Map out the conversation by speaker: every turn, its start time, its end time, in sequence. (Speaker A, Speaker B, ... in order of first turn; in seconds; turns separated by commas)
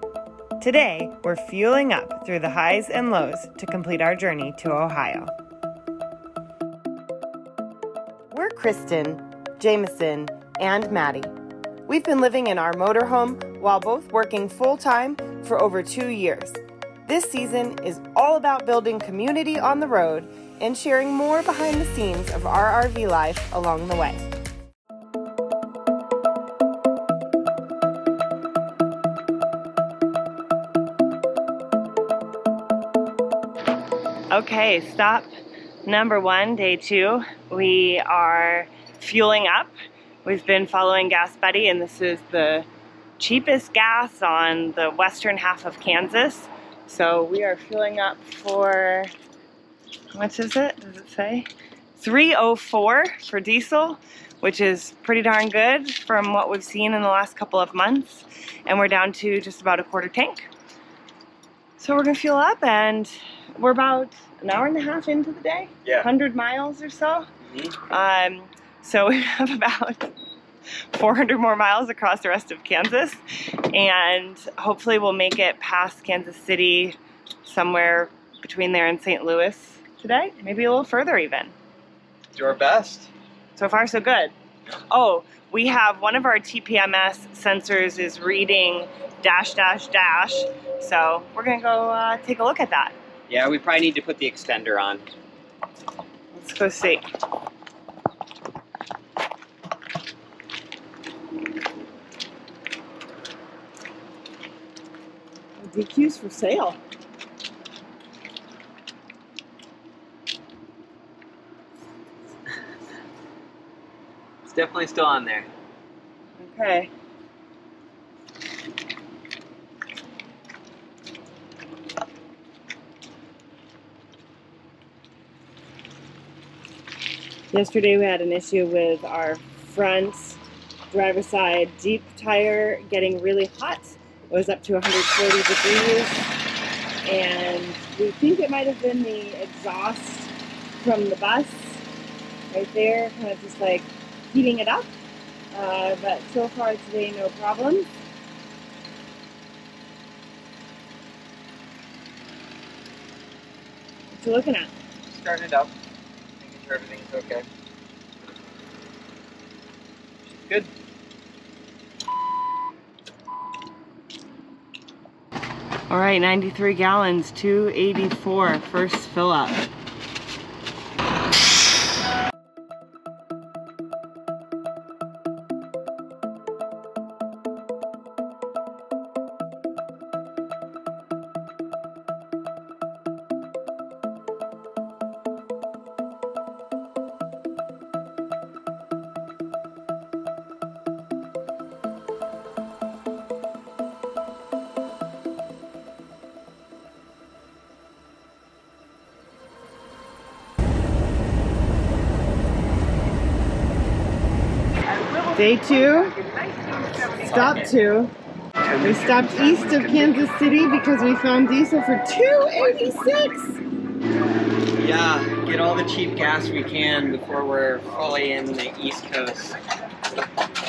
Speaker A: 0.6-5.3, Speaker A: 8.3-11.3, Speaker A: 11.9-24.2, Speaker A: 34.3-35.3, Speaker A: 35.9-39.7, Speaker A: 40.2-42.7, Speaker A: 43.2-49.1, Speaker A: 50.1-60.5, Speaker A: 61.8-67.3, Speaker B: 67.5-67.8, Speaker A: 67.8-70.1, Speaker A: 70.9-81.5, Speaker B: 82.3-83.1, Speaker A: 83.6-84.3, Speaker A: 84.9-92.9, Speaker B: 93.3-95.1, Speaker A: 96.3-97.0, Speaker A: 105.6-106.8, Speaker B: 114.5-115.5, Speaker A: 116.4-116.9, Speaker A: 127.5-136.4, Speaker A: 137.1-141.8, Speaker A: 142.5-144.9, Speaker A: 145.5-147.9, Speaker A: 154.2-154.7, Speaker B: 155.1-155.7, Speaker B: 156.4-157.4, Speaker B: 160.3-160.7, Speaker A: 165.9-169.7, Speaker A: 205.3-206.2, Speaker A: 207.1-208.1, Speaker A: 208.8-213.6, Speaker B: 214.8-219.6